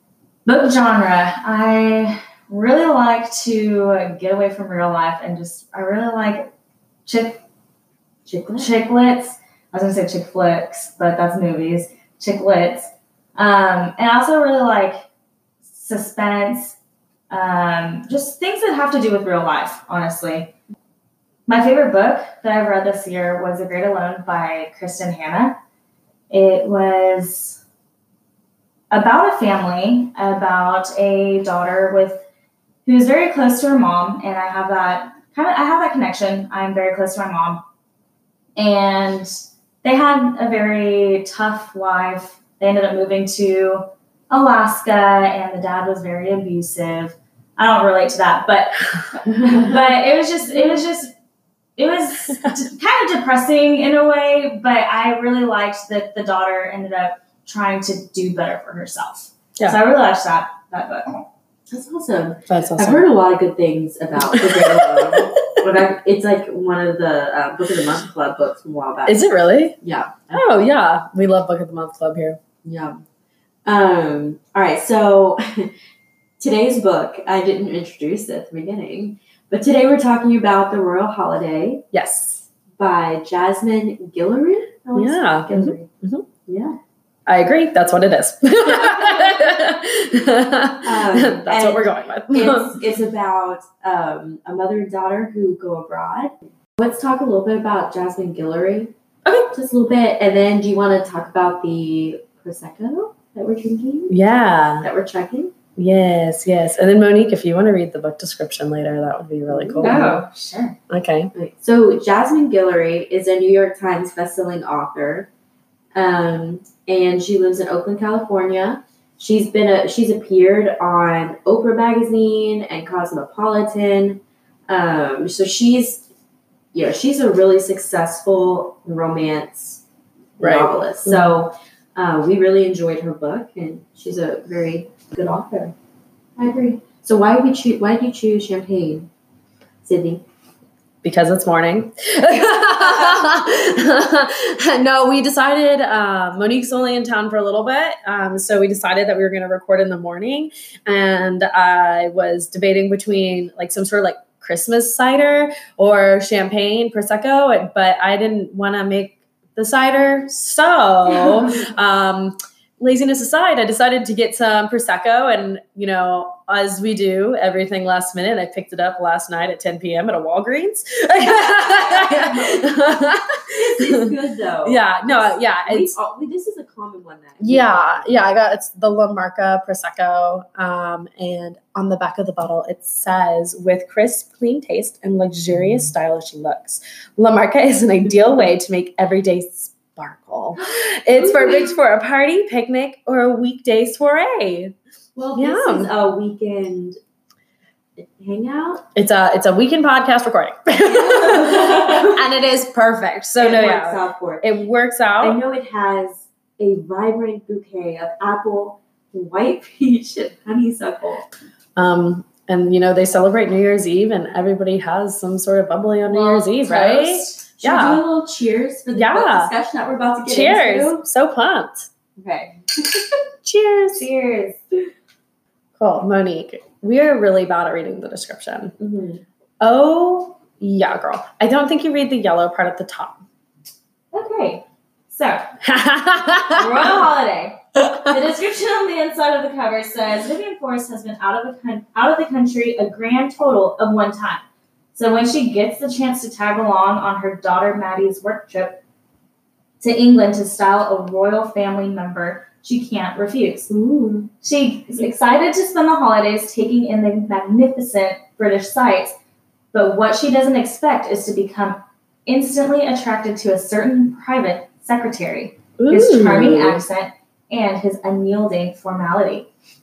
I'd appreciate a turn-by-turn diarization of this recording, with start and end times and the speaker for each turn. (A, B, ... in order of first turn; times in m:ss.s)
0:00.5-0:06.5 A
0:07.1-0:07.4 A
0:08.3-0:08.7 B
0:08.6-0:15.1 A
0:15.7-0:16.8 A
0:17.3-0:20.5 A
0:21.5-0:25.6 A
0:26.3-0:27.6 A
0:28.9-0:32.2 A
0:32.8-0:37.6 A
0:38.6-0:51.1 A
0:51.8-1:01.3 A
1:01.7-1:09.2 B
1:02.5-1:03.1 C
1:04.2-1:05.4 C
1:09.1-1:09.8 C
1:09.8-1:10.4 B
1:10.3-1:12.4 C
1:12.6-1:13.0 B
1:13.7-1:15.7 B
1:16.4-1:21.8 B
1:21.9-1:22.5 C
1:22.8-1:25.9 B
1:25.0-1:26.3 C
1:26.5-1:26.8 B
1:27.3-1:32.8 C
1:30.8-1:38.9 B
1:39.5-1:44.2 B
1:44.1-1:44.9 C
1:44.8-1:45.5 B
1:45.8-1:50.2 C
1:49.5-1:50.1 B
1:49.8-1:50.8 A
1:50.9-1:51.3 C
1:51.3-1:55.3 B
1:55.9-2:06.0 B
2:06.7-2:09.8 B
2:10.4-2:15.7 B
2:10.4-2:11.4 C
2:16.4-2:19.1 B
2:19.8-2:20.2 B
2:21.0-2:54.1 C
2:51.9-2:52.6 B
2:53.5-2:58.2 B
2:54.6-2:56.0 C
2:57.4-3:14.8 C
3:11.2-3:11.8 B
3:15.2-3:17.0 B
3:15.4-3:15.9 C
3:18.2-3:18.8 B
3:19.0-3:25.4 C
3:20.8-3:22.3 B
3:23.4-3:24.5 B
3:25.2-3:31.3 B
3:31.8-3:38.0 C
3:36.1-3:37.4 A
3:37.6-3:41.0 B
3:38.9-3:39.5 C
3:40.2-3:41.9 C
3:42.2-3:43.1 B
3:43.4-3:44.1 C
3:43.9-3:44.6 A
3:45.8-3:48.8 C
3:48.8-3:49.2 B
3:49.6-3:53.2 C
3:54.1-3:55.5 A
3:55.6-3:57.0 C
3:56.6-4:04.4 A
3:57.8-3:58.2 C
4:05.0-4:08.8 A
4:09.8-4:13.7 A
4:13.7-4:14.3 B
4:14.4-4:19.2 A
4:19.7-4:29.5 A
4:25.8-4:26.8 C